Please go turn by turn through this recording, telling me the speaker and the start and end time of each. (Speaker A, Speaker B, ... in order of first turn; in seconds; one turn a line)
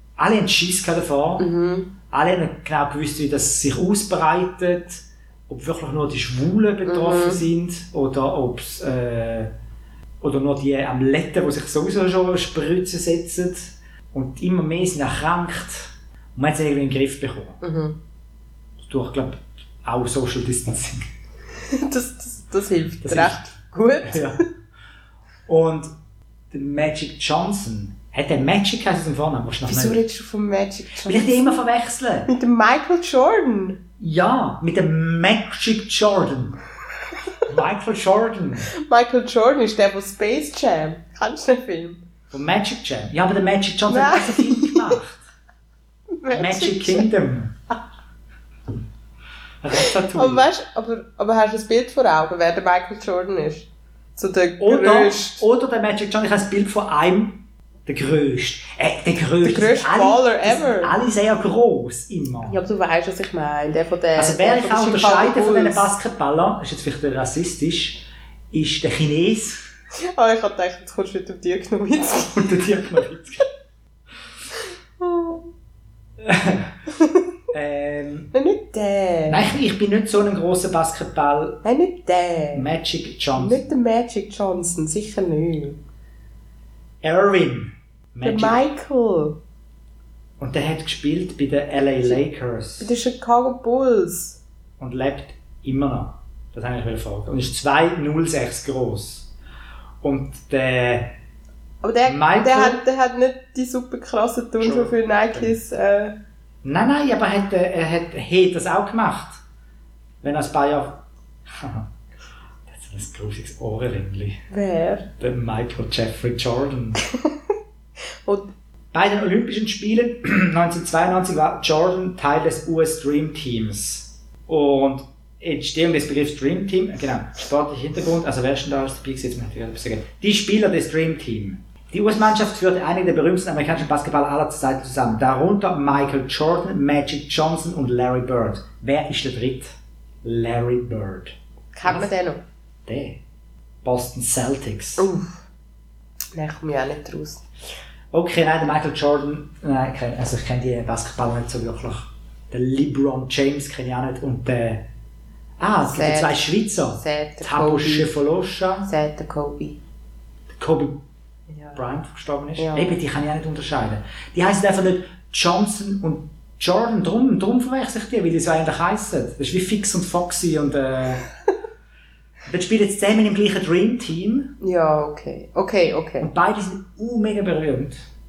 Speaker A: 0.2-1.5
Speaker B: 1.4-1.9
Speaker A: 2.1-9.5
Speaker B: 6.8-7.4
Speaker A: 10.2-17.6
Speaker B: 17.6-18.0
Speaker A: 18.8-21.1
Speaker B: 21.7-24.5
Speaker A: 23.0-23.4
Speaker A: 24.0-24.4
Speaker A: 25.5-25.9
Speaker A: 26.5-30.0
Speaker B: 29.7-31.6
Speaker A: 31.1-32.3
Speaker B: 32.3-33.8
Speaker A: 34.0-36.6
Speaker A: 37.5-38.7
Speaker B: 38.7-42.0
Speaker A: 42.3-45.2
Speaker B: 43.9-45.0
Speaker B: 46.2-47.1
Speaker A: 46.3-47.5
Speaker A: 49.6-50.4
Speaker B: 49.7-55.4
Speaker A: 54.6-62.6
Speaker B: 59.4-60.9
Speaker B: 62.5-65.9
Speaker A: 64.2-69.6
Speaker B: 70.0-73.1
Speaker A: 72.3-73.5
Speaker B: 75.0-75.5
Speaker A: 76.2-76.7
Speaker A: 77.5-78.3
Speaker B: 78.3-79.4
Speaker A: 79.3-81.6
Speaker B: 81.6-82.7
Speaker A: 82.5-83.6
Speaker B: 83.4-85.8
Speaker A: 87.0-88.6
Speaker B: 88.2-89.4
Speaker A: 90.4-92.9
Speaker B: 92.8-94.4
Speaker A: 94.8-99.3
Speaker A: 100.0-101.1
Speaker B: 101.8-106.2
Speaker A: 102.1-102.8
Speaker A: 104.6-105.5
Speaker A: 106.6-109.4
Speaker A: 110.2-111.9
Speaker A: 112.7-114.4
Speaker B: 114.5-115.1
Speaker A: 115.1-117.0
Speaker A: 118.9-142.1
Speaker B: 141.7-142.4
Speaker A: 142.9-143.2
Speaker A: 143.8-145.1
Speaker B: 145.0-145.4
Speaker B: 146.3-147.4
Speaker A: 148.1-154.9
Speaker A: 155.6-158.9
Speaker B: 155.8-158.2
Speaker B: 158.8-159.8
Speaker A: 160.6-161.0
Speaker B: 161.5-161.8
Speaker A: 161.8-171.2
Speaker B: 162.6-163.0
Speaker A: 172.5-174.5
Speaker B: 174.6-176.3
Speaker A: 176.2-178.1